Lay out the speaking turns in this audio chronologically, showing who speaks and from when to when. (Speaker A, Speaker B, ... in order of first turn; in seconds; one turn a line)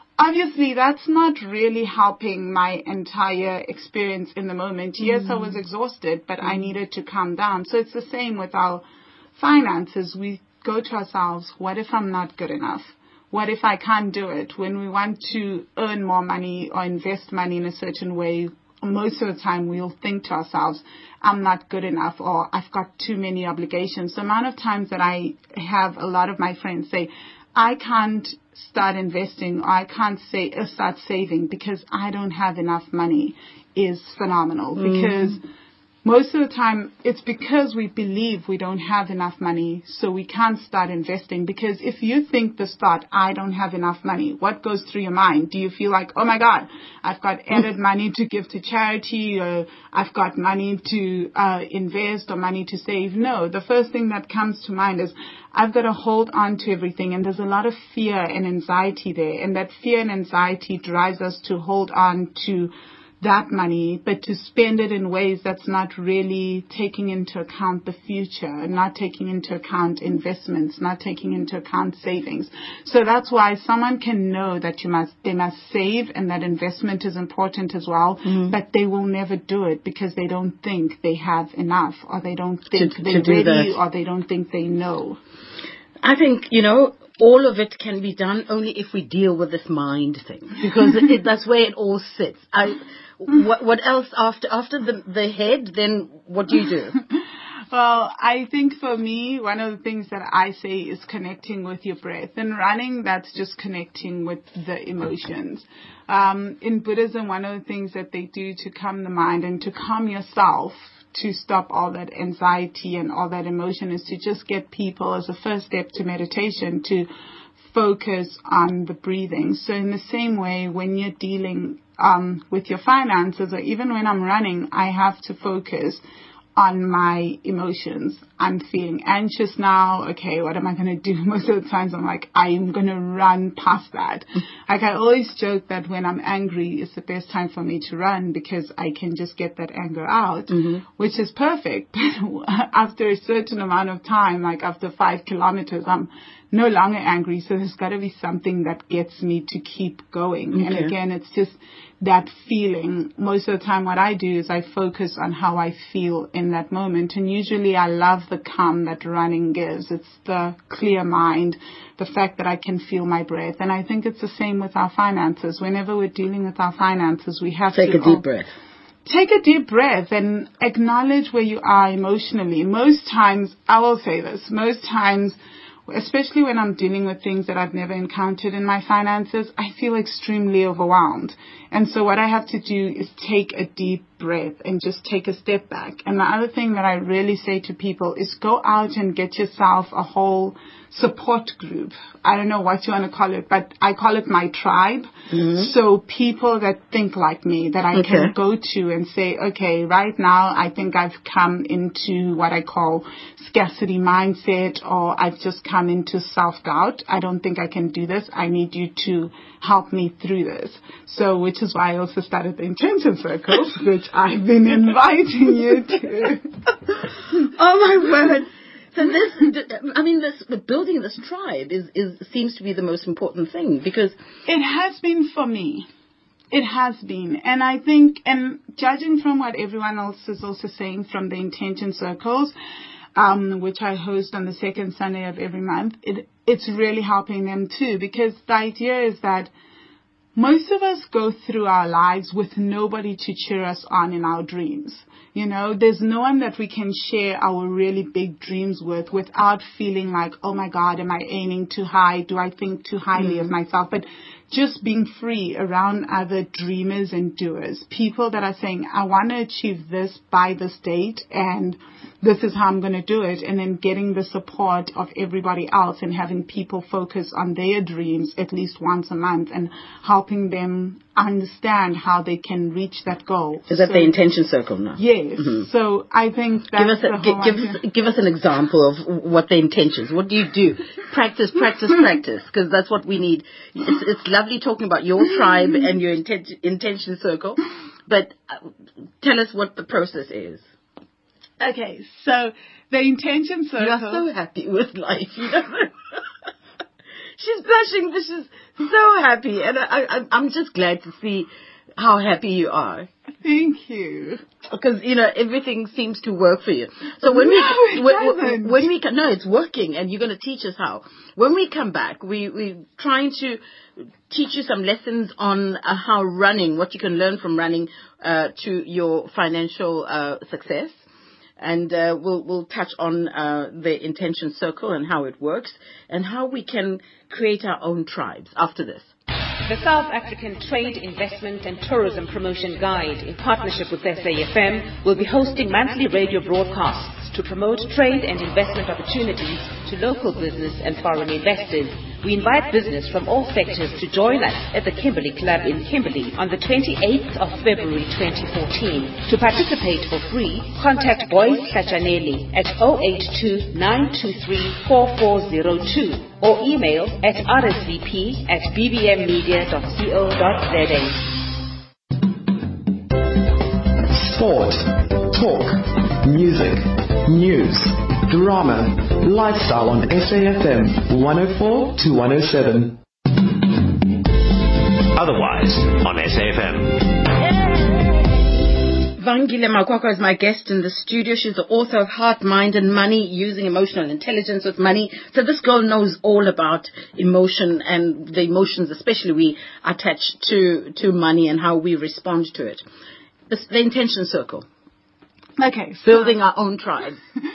Speaker A: 0.2-8.8
Speaker A: 9.4-35.4
Speaker B: 34.8-35.3
Speaker A: 36.0-85.2
Speaker B: 78.2-78.5
Speaker B: 82.7-83.7
Speaker B: 86.0-97.0
Speaker A: 97.7-117.1
Speaker A: 117.7-126.0
Speaker A: 126.5-168.2
Speaker B: 140.5-140.8
Speaker B: 150.5-150.9
Speaker B: 167.7-168.5
Speaker A: 169.1-175.4
Speaker A: 175.9-216.5
Speaker B: 195.3-195.7
Speaker B: 197.9-198.3
Speaker B: 217.4-224.2
Speaker A: 224.4-225.9
Speaker A: 226.5-232.5
Speaker A: 233.2-239.5
Speaker A: 240.3-274.1
Speaker B: 253.2-253.5
Speaker B: 273.7-275.6
Speaker A: 274.9-277.8
Speaker B: 276.7-288.7
Speaker B: 289.2-290.7
Speaker A: 291.6-294.2
Speaker B: 293.8-296.2
Speaker B: 297.4-303.1
Speaker A: 303.4-304.4
Speaker B: 304.7-313.6
Speaker A: 307.2-308.8
Speaker B: 314.3-321.0
Speaker B: 321.6-329.1
Speaker C: 329.6-361.3
Speaker D: 364.1-373.0
Speaker E: 375.1-377.2
Speaker B: 379.2-392.8
Speaker B: 393.5-394.6
Speaker A: 395.6-396.4
Speaker B: 396.0-397.2